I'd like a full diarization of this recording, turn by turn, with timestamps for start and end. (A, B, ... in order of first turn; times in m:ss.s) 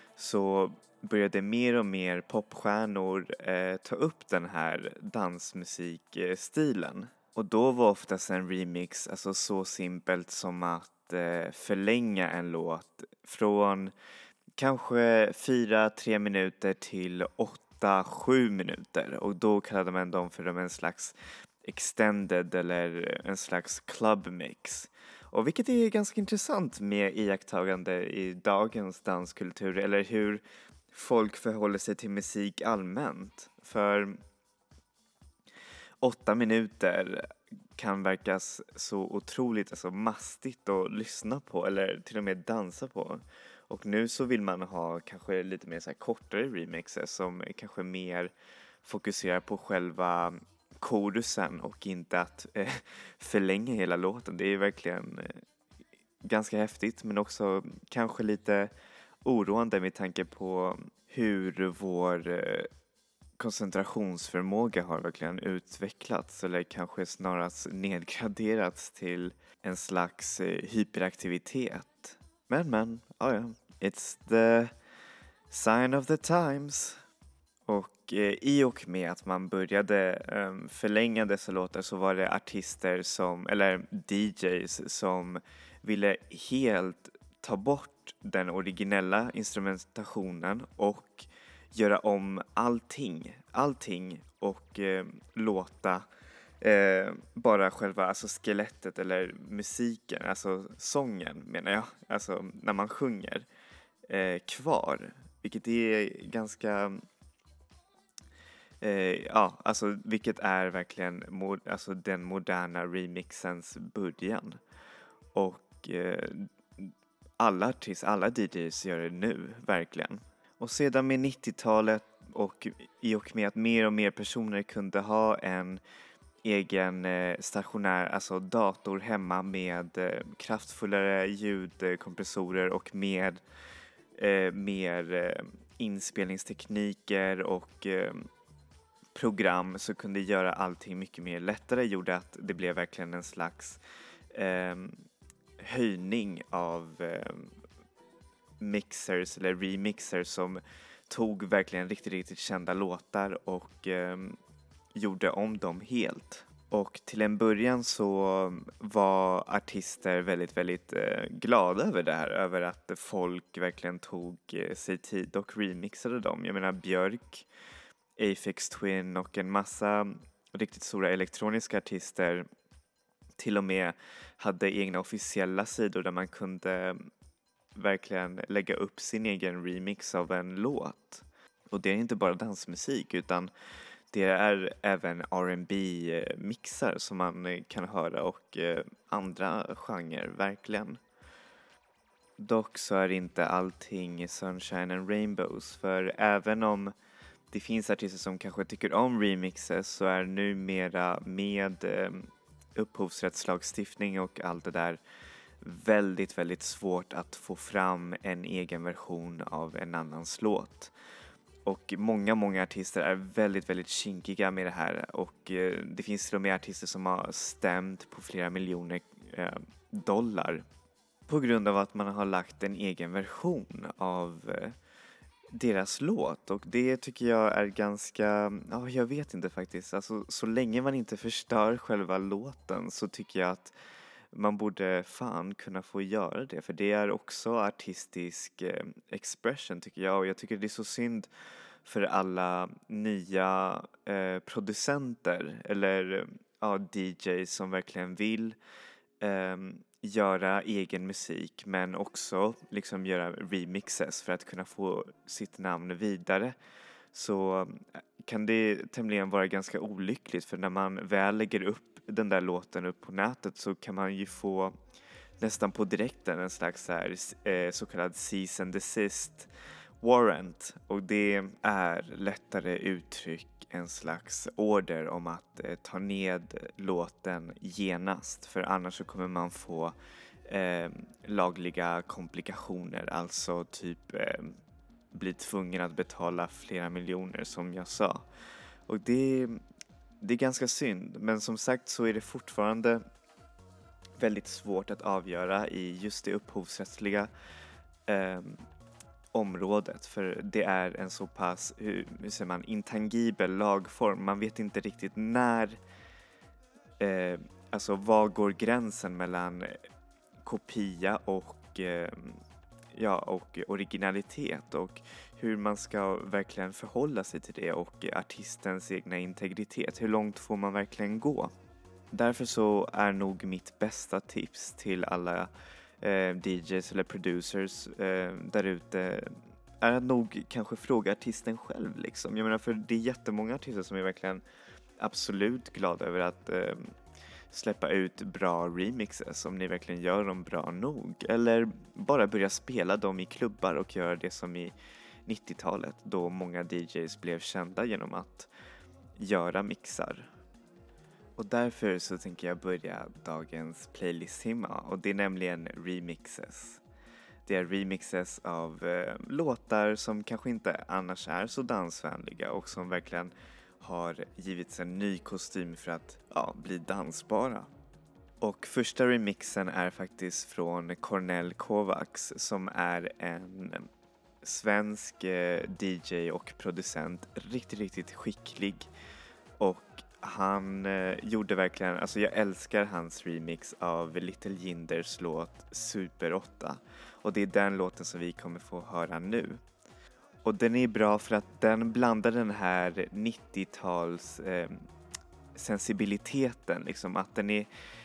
0:00.2-0:13.9 A
0:14.6-0:34.2 A
0:36.0-0:48.3 A
0:48.8-0:55.4 A
0:56.2-0:58.7 A
0:59.2-1:02.7 A
1:03.4-1:14.7 A
1:15.5-1:17.0 A
1:17.7-1:36.1 A
1:36.6-1:43.4 A
1:44.1-1:47.0 A
1:48.8-1:54.6 A
1:55.3-2:05.8 A
2:06.4-2:13.4 A
2:14.2-2:18.3 A
2:19.1-2:23.8 A
2:24.3-2:25.0 A
2:25.6-2:27.5 A
2:28.6-2:34.4 A
2:34.9-2:47.4 A
2:48.2-2:52.5 A
2:53.4-2:57.1 A
2:57.8-3:03.5 A
3:04.1-3:11.0 A
3:12.4-3:16.9 A
3:17.5-3:25.0 A
3:25.6-3:30.9 A
3:31.6-3:40.6 A
3:41.3-3:44.8 A
3:45.5-3:53.7 A
3:54.3-4:01.3 A
4:01.8-4:08.6 A
4:09.2-4:16.6 A
4:17.1-4:24.7 A
4:25.4-4:29.5 A
4:30.0-4:39.9 A
4:40.5-4:44.6 A
4:45.1-4:48.2 A
4:48.9-4:49.6 A
4:50.2-4:53.0 A
4:54.2-4:57.3 A
4:58.1-4:58.6 A
4:59.3-5:05.8 A
5:07.0-5:09.8 A
5:10.4-5:12.4 A
5:12.9-5:21.5 A
5:22.1-5:25.5 A
5:26.0-5:34.4 A
5:35.0-5:36.9 A
5:37.5-5:44.7 A
5:45.3-5:48.5 A
5:49.2-5:50.3 A
5:51.4-5:56.8 A
5:57.4-6:07.7 A
6:08.4-6:13.9 A
6:14.4-6:18.9 A
6:19.6-6:29.6 A
6:30.4-6:34.8 A
6:35.5-6:37.7 A